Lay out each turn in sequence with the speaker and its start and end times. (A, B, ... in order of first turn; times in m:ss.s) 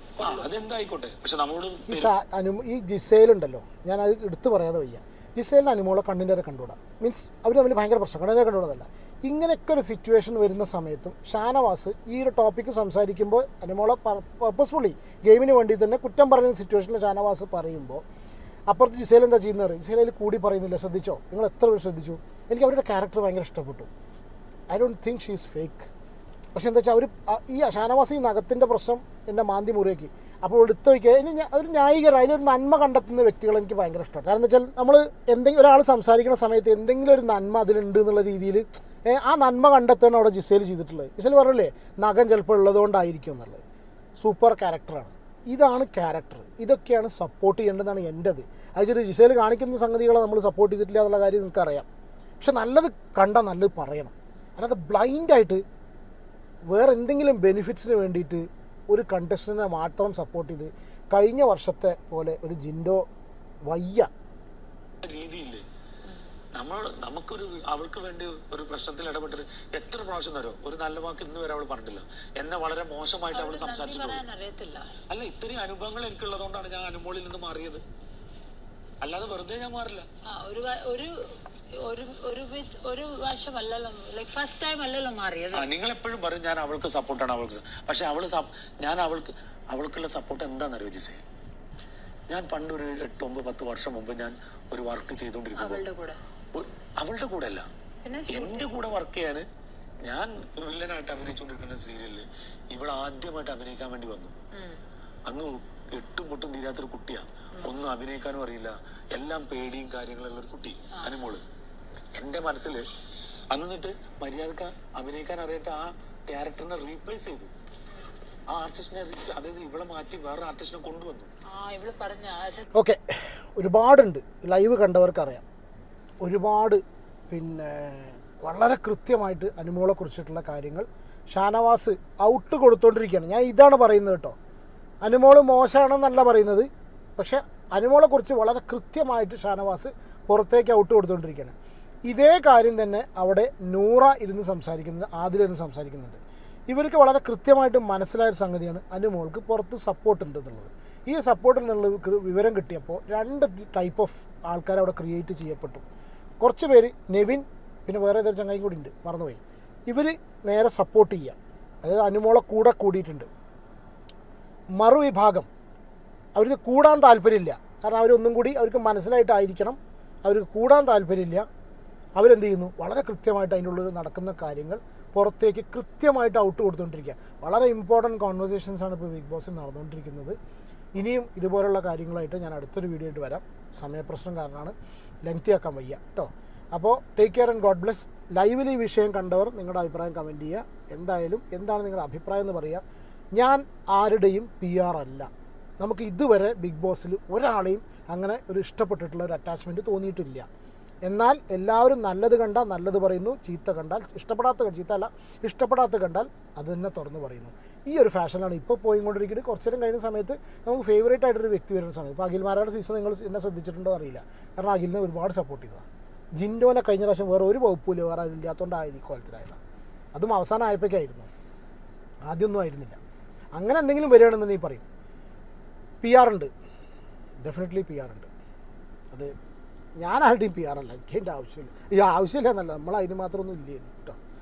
0:00.2-0:00.5 A
0:00.2-0:02.1 B
0:01.9-0:18.0 C
0:18.7-0:23.9 C
0:24.7-0:25.9 C
0:26.5-0:43.6 C
0:44.2-0:51.9 C
0:52.4-0:55.6 C
0:56.7-1:03.0 C
1:03.6-1:04.1 C
1:05.0-1:05.6 B
1:06.5-1:14.2 B
1:13.3-1:14.9 A
1:15.1-1:17.8 B
1:19.0-1:20.0 B
1:20.3-1:21.1 A
1:21.8-1:25.7 A
1:25.5-1:31.2 B
1:32.3-1:35.8 B
1:35.6-1:36.2 A
1:36.5-1:37.7 B
1:38.0-1:38.7 A
1:38.3-1:39.4 B
1:40.0-1:44.4 B
1:44.5-1:44.8 A
1:45.3-1:51.4 B
1:52.1-1:52.8 B
1:53.5-1:57.5 B
1:58.5-2:01.3 B
2:01.5-2:02.7 A
2:02.7-2:05.4 C
2:06.2-2:14.4 C
2:15.0-2:21.5 C
2:22.1-2:35.8 C
2:36.4-2:43.3 C
2:44.8-2:45.5 C
2:46.4-2:51.4 C
2:52.2-3:00.4 C
3:01.0-3:12.8 C
3:13.4-3:15.3 C
3:15.8-3:20.5 C
3:21.0-3:35.8 C
3:36.4-3:39.6 C
3:40.1-3:41.3 C
3:42.3-3:43.0 C
3:43.6-3:44.8 C
3:46.0-3:46.5 C
3:47.4-3:48.3 C
3:50.0-3:54.2 C